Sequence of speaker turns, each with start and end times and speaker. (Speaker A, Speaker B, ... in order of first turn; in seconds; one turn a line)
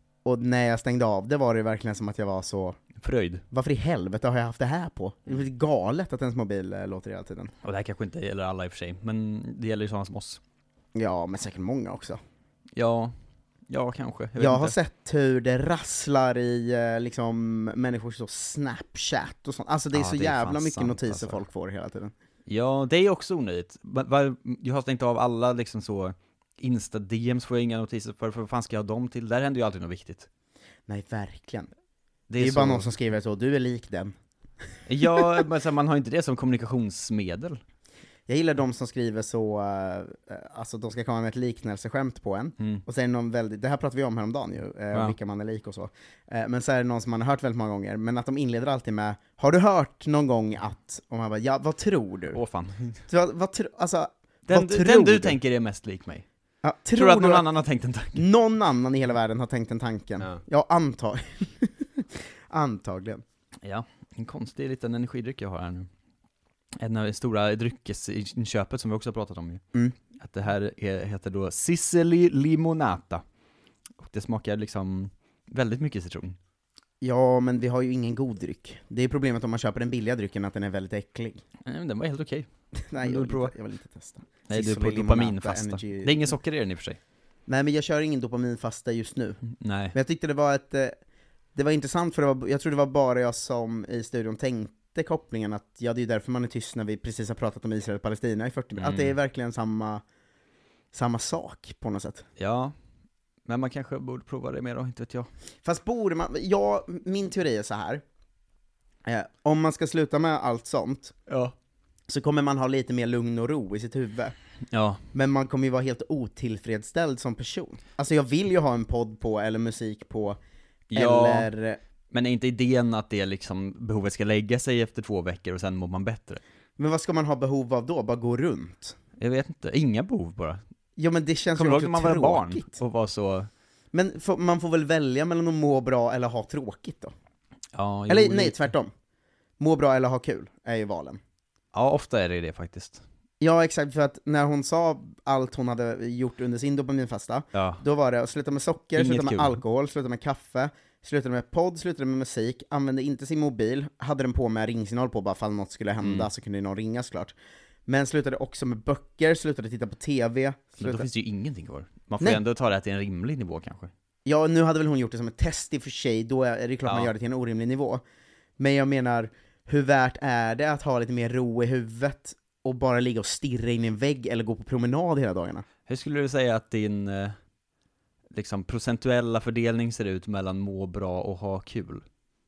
Speaker A: 0.2-2.8
Speaker B: 3.0-3.4
Speaker A: 3.5-7.5
Speaker B: 7.6-10.4
Speaker A: 10.9-12.2
Speaker B: 12.8-13.1
Speaker B: 13.7-14.7
Speaker A: 14.4-22.1
Speaker B: 19.9-21.4
Speaker B: 22.5-30.3
Speaker A: 30.9-31.7
Speaker B: 32.3-32.9
Speaker A: 32.4-34.1
Speaker B: 34.9-37.6
Speaker A: 38.3-52.4
Speaker B: 52.3-53.0
Speaker A: 53.1-55.4
Speaker B: 54.5-56.2
Speaker A: 56.6-57.5
Speaker B: 56.9-58.2
Speaker A: 58.1-63.2
Speaker B: 63.6-65.9
Speaker B: 66.8-69.6
Speaker B: 70.2-73.2
Speaker B: 74.0-76.4
Speaker A: 77.0-81.4
Speaker B: 81.7-82.5
Speaker A: 82.8-86.2
Speaker B: 83.0-83.5
Speaker B: 84.5-87.0
Speaker A: 87.5-89.4
Speaker B: 89.6-89.9
Speaker A: 89.9-90.9
Speaker A: 91.5-100.0
Speaker B: 98.8-99.1
Speaker A: 100.9-102.2
Speaker B: 102.4-102.7
Speaker B: 103.5-105.3
Speaker A: 105.6-108.0
Speaker A: 109.0-111.1
Speaker B: 111.3-111.5
Speaker A: 112.1-114.3
Speaker B: 114.7-115.0
Speaker A: 115.1-120.4
Speaker B: 120.9-121.5
Speaker A: 120.9-121.8
Speaker B: 122.1-126.4
Speaker A: 126.8-128.9
Speaker B: 129.2-130.6
Speaker A: 130.9-132.8
Speaker B: 131.5-133.5
Speaker A: 133.9-137.1
Speaker B: 137.7-138.6
Speaker A: 138.1-138.9
Speaker A: 139.6-141.2
Speaker B: 141.7-143.0
Speaker A: 143.4-157.3
Speaker B: 147.5-147.8
Speaker B: 148.9-149.6
Speaker B: 156.0-156.3
Speaker A: 157.8-161.1
Speaker B: 160.8-163.9
Speaker A: 164.2-168.0
Speaker B: 166.8-167.1
Speaker A: 168.6-175.6
Speaker B: 175.9-177.3
Speaker B: 178.3-182.0